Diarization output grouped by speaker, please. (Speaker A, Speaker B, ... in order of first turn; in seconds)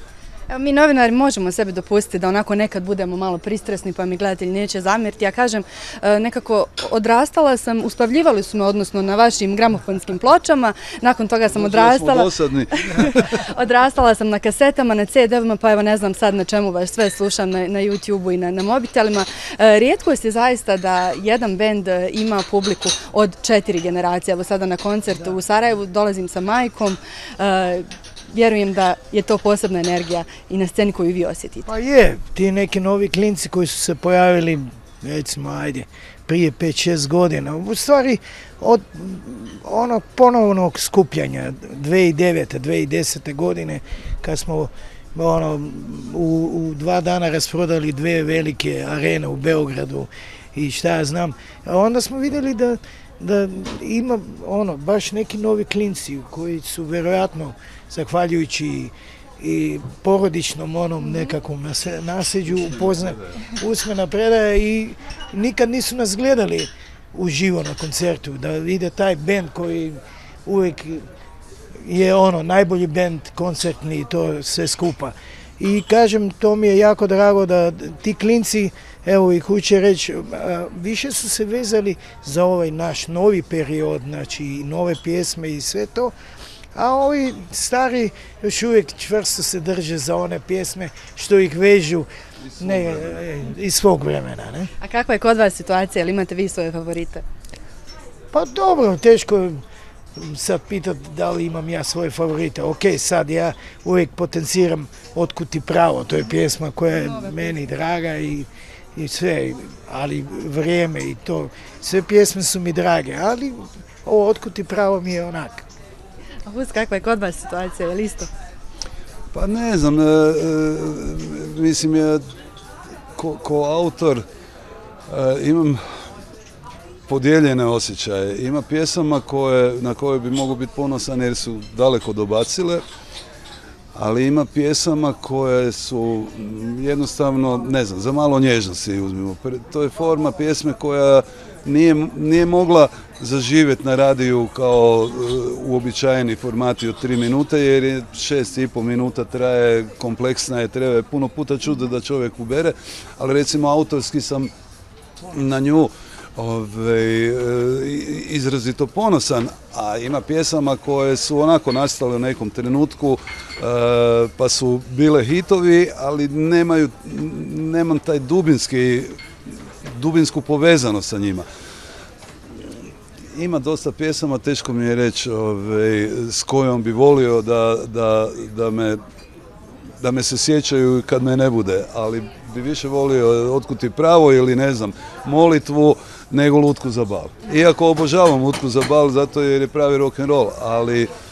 Speaker A: 0.5-31.7, 94.8-97.2, 106.9-107.5, 116.4-118.3
Speaker B: 11.5-13.3, 62.5-63.3, 92.4-93.2, 119.3-122.2, 123.1-124.2, 125.1-125.8, 127.1-132.8, 133.9-154.5, 155.3-169.2, 169.8-171.4, 173.3-179.0, 180.0-191.1
Speaker C: 31.6-71.0, 71.8-86.1, 86.7-92.1, 92.6-94.7, 98.3-99.6, 100.2-115.7